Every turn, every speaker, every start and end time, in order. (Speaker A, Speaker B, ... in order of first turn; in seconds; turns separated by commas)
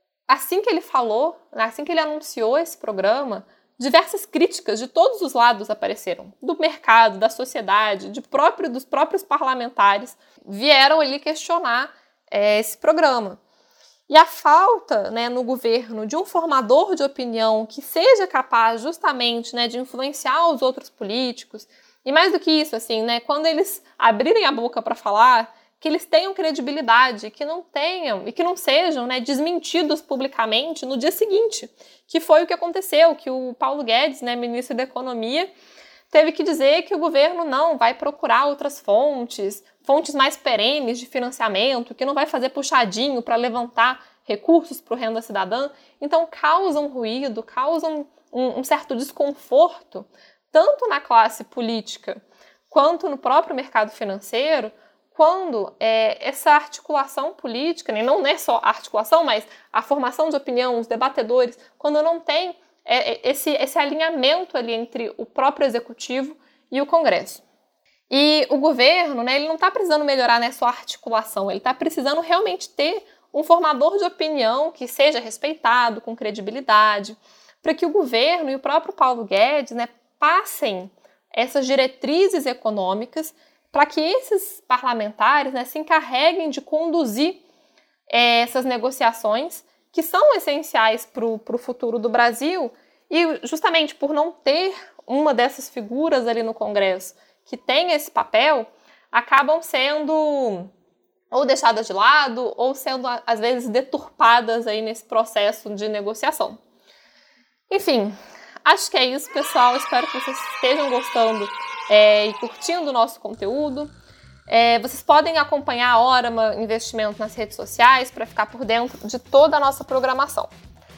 Speaker A: 0.3-13.4, Speaker A: 14.1-35.5, Speaker A: 36.1-67.4, Speaker A: 68.1-87.4, Speaker A: 88.1-100.7, Speaker A: 101.3-106.6, Speaker A: 107.7-113.9, Speaker A: 114.5-120.5